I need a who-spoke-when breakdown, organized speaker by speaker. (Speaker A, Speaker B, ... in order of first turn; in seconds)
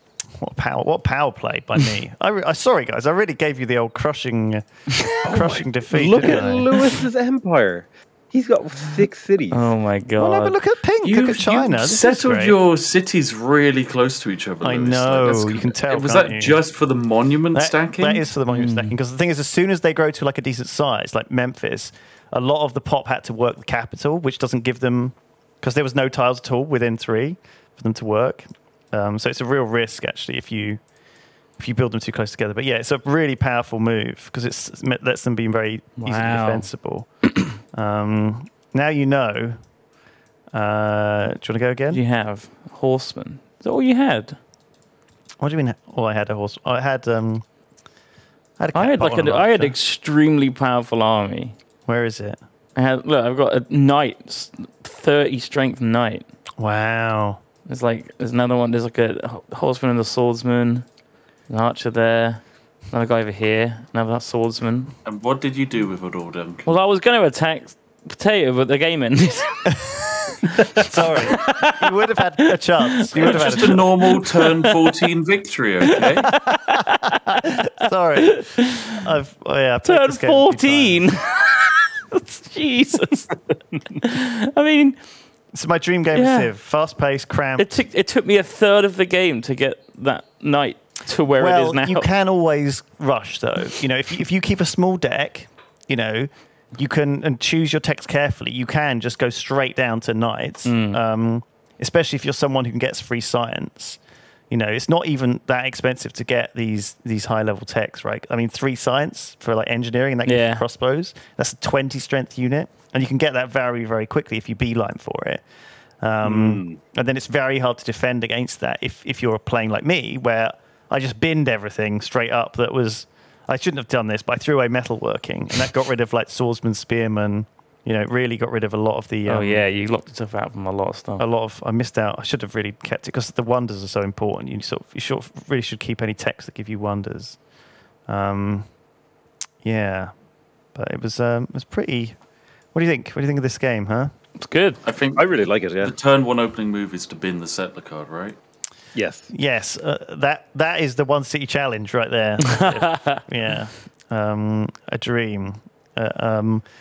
Speaker A: 0.4-6.7, 10.2-12.6, 14.6-16.6, 17.5-30.8, 31.6-39.6, 40.5-42.0, 45.4-47.4, 48.6-49.8, 51.9-52.4, 56.6-57.4, 70.8-74.0, 76.5-81.0, 85.5-87.8, 91.4-115.4, 116.0-129.6, 131.2-137.5, 138.0-138.8, 139.6-140.2, 140.7-144.1, 149.3-156.7
Speaker B: 5.2-6.2, 11.0-18.2, 65.0-66.8, 73.2-76.5, 144.8-148.4
Speaker C: 5.9-9.7, 116.2-116.8, 145.1-145.9, 148.9-149.3
Speaker D: 9.5-10.6, 18.5-18.9, 36.0-36.7, 41.9-44.4, 48.7-51.5, 52.7-56.3, 57.6-60.9, 61.5-64.9, 66.7-70.0, 71.3-71.9, 72.8-75.0, 76.1-77.4, 78.2-78.9, 79.8-85.3, 86.1-86.5, 87.6-92.1, 100.7-101.0, 110.2-110.6, 129.2-131.2, 144.4-144.8, 152.5-153.2